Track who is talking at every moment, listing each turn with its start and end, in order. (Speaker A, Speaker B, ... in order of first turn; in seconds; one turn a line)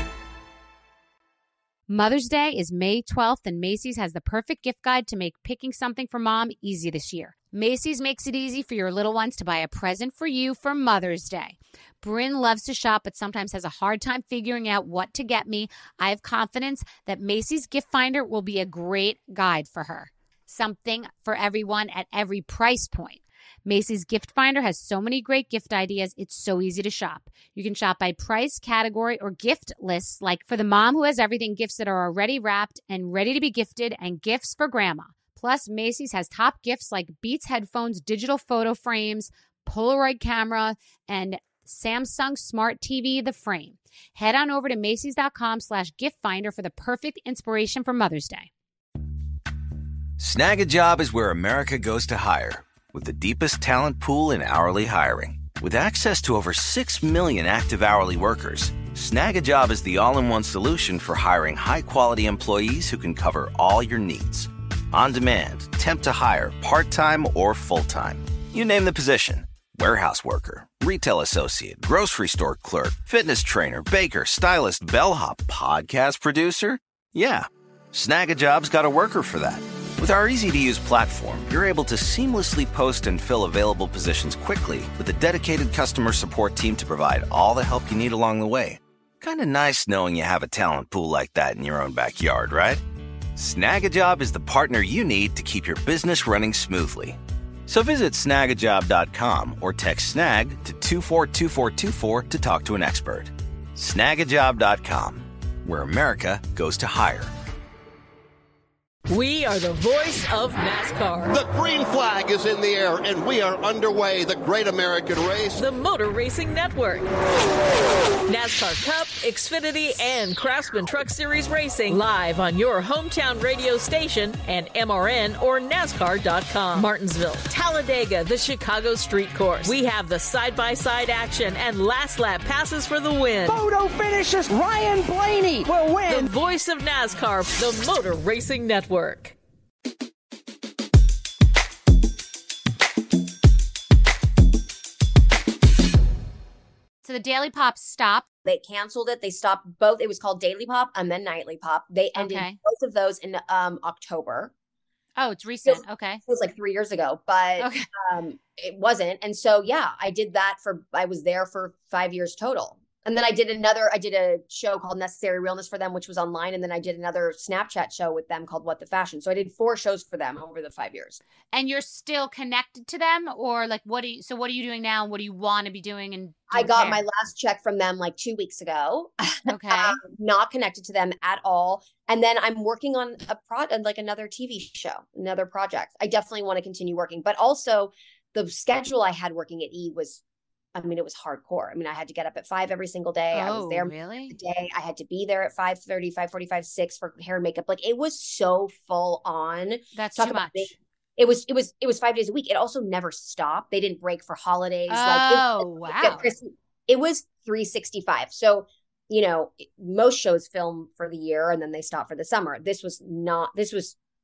Speaker A: 1.9-48.5
Speaker B: 50.2-92.8
Speaker B: 93.3-107.3
Speaker C: 109.1-111.4
Speaker D: 111.3-115.6
Speaker C: 115.6-117.1
Speaker C: 118.3-133.6
Speaker E: 133.4-136.3
Speaker C: 136.1-139.3
Speaker A: 147.0-148.2
Speaker F: 148.4-154.5
Speaker A: 152.2-152.6
Speaker A: 155.2-156.2
Speaker F: 155.6-171.2
Speaker A: 157.6-157.9
Speaker A: 171.5-177.0
Speaker F: 176.5-190.2
Speaker A: 179.5-180.0
Speaker F: 190.7-213.9
Speaker A: 193.3-194.4
Speaker A: 199.9-200.7
Speaker A: 204.9-206.3